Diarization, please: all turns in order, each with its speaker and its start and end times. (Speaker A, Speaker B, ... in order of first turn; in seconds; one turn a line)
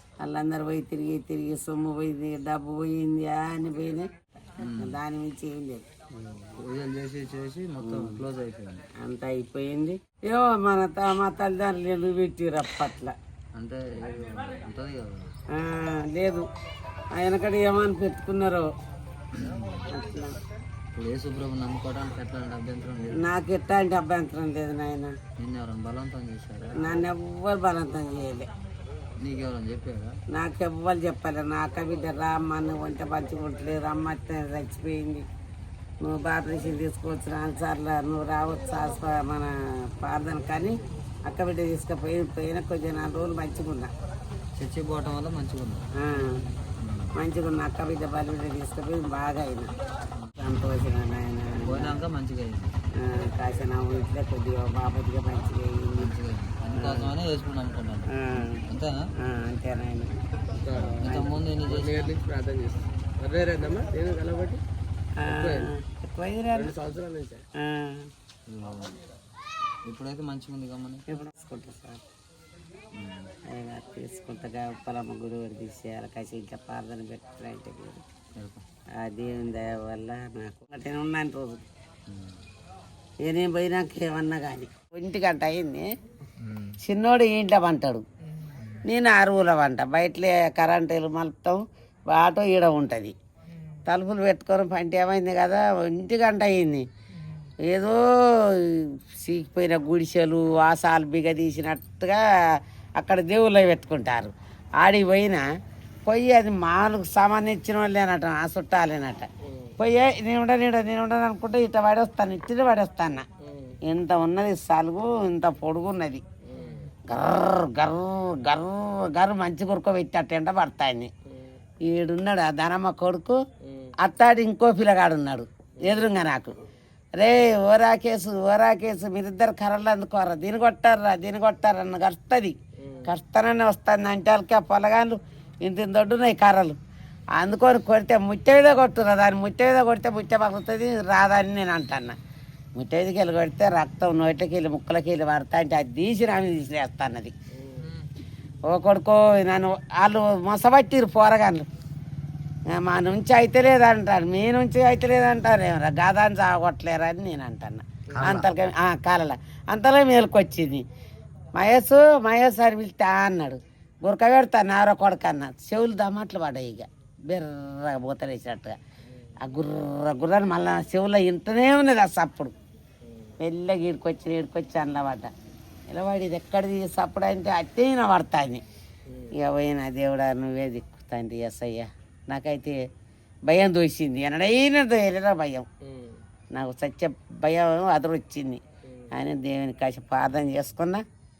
Speaker A: 0.2-4.1
Speaker B: 4.6-5.0
Speaker A: 4.7-5.9
Speaker B: 6.1-8.9
Speaker A: 7.8-8.2
Speaker A: 9.0-13.2
Speaker B: 13.6-15.3
Speaker A: 15.5-16.5
Speaker A: 17.1-18.7
Speaker B: 19.3-19.9
Speaker A: 19.9-20.4
Speaker B: 20.9-23.3
Speaker A: 23.1-25.1
Speaker B: 25.4-26.9
Speaker A: 26.7-28.5
Speaker B: 29.2-30.2
Speaker A: 30.3-35.3
Speaker A: 36.0-43.9
Speaker B: 44.6-45.9
Speaker A: 46.0-46.5
Speaker B: 46.8-47.2
Speaker A: 47.1-49.7
Speaker A: 50.4-52.0
Speaker B: 51.7-52.8
Speaker A: 53.0-56.1
Speaker B: 56.0-59.0
Speaker A: 56.8-57.1
Speaker A: 58.1-58.6
Speaker A: 59.2-60.1
Speaker C: 60.5-64.6
Speaker A: 60.8-61.3
Speaker B: 61.0-62.1
Speaker A: 65.2-66.7
Speaker C: 65.2-65.7
Speaker C: 66.5-67.5
Speaker A: 67.6-68.1
Speaker B: 68.5-69.0
Speaker B: 69.8-71.0
Speaker A: 71.1-72.0
Speaker B: 72.9-73.3
Speaker A: 73.5-78.0
Speaker B: 78.4-78.6
Speaker A: 79.0-81.6
Speaker B: 82.1-82.4
Speaker A: 83.2-85.9
Speaker B: 86.4-86.8
Speaker A: 86.8-88.0
Speaker B: 88.5-88.8
Speaker A: 88.8-93.2
Speaker A: 93.9-96.8
Speaker A: 97.6-102.2
Speaker A: 103.0-105.5
Speaker A: 106.1-109.3
Speaker C: 109.5-109.7
Speaker A: 109.8-113.2
Speaker C: 113.4-113.8
Speaker A: 113.9-116.2
Speaker C: 116.4-116.9
Speaker A: 117.1-121.1
Speaker C: 121.3-121.6
Speaker A: 121.8-123.4
Speaker C: 123.6-124.0
Speaker A: 124.0-126.5
Speaker A: 127.2-136.8
Speaker C: 132.8-133.1
Speaker A: 137.4-142.2
Speaker A: 142.8-147.3
Speaker C: 147.5-147.9
Speaker A: 148.7-151.7
Speaker A: 152.7-160.8
Speaker B: 158.1-158.5
Speaker A: 161.6-168.8
Speaker A: 169.4-172.5
Speaker C: 173.1-173.3
Speaker A: 173.4-175.3
Speaker A: 175.9-178.6
Speaker C: 179.1-179.3
Speaker A: 179.3-182.8
Speaker A: 183.5-185.7
Speaker C: 185.8-186.2
Speaker A: 186.5-191.0